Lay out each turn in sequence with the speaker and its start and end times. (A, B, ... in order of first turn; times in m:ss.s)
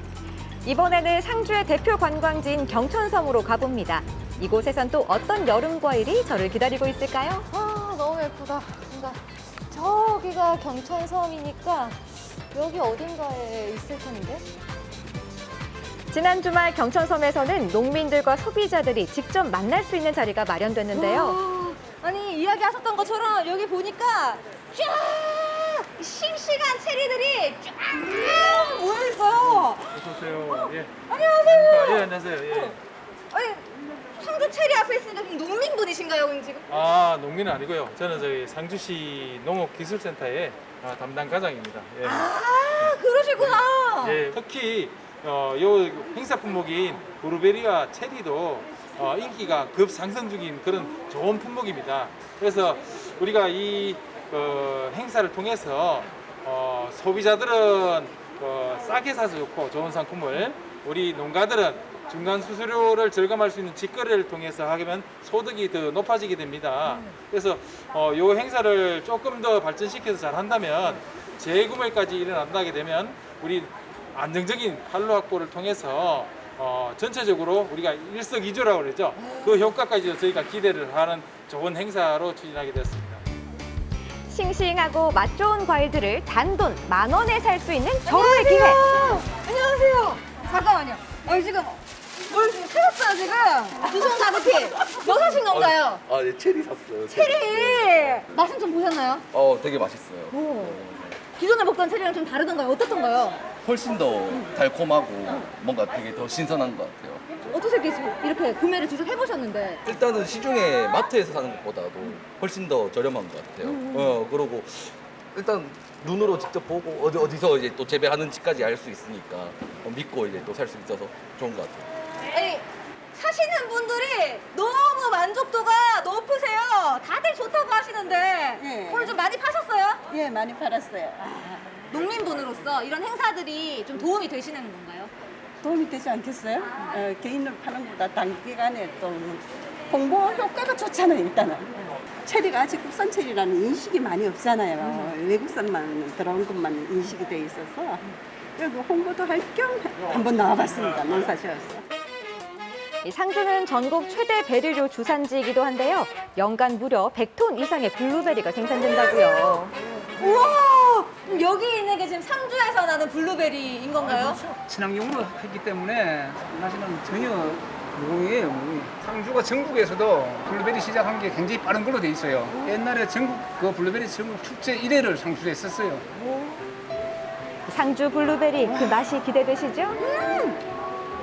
0:00.6-0:07.5 A
0:07.5-0:14.4 B
0:16.1-0:21.4 A
0:20.9-0:32.8 B
0:29.4-0:32.7 C
0:33.3-0:36.7 B
0:36.7-0:42.2 C
0:42.0-0:44.3 B
0:42.8-1:23.2 C
1:19.2-1:19.5 B
1:24.3-1:28.8 A
1:28.0-1:36.0 B
1:34.7-1:38.4 D
1:37.1-1:39.2 B
1:39.3-1:41.2 D
1:40.3-1:40.8 B
1:41.3-1:43.5 B
1:43.6-1:47.2 D
1:47.4-1:49.8 B
1:49.8-2:01.8 D
1:53.6-1:54.1 B
2:02.3-2:10.0 B
2:08.6-2:09.2 E
2:10.1-2:12.1 E
2:11.9-2:15.1 B
2:15.6-2:31.8 E
2:33.0-2:39.7 A
2:40.2-2:44.4 B
2:44.0-2:56.0 F
2:57.7-3:00.0 A
3:00.0-3:00.6 B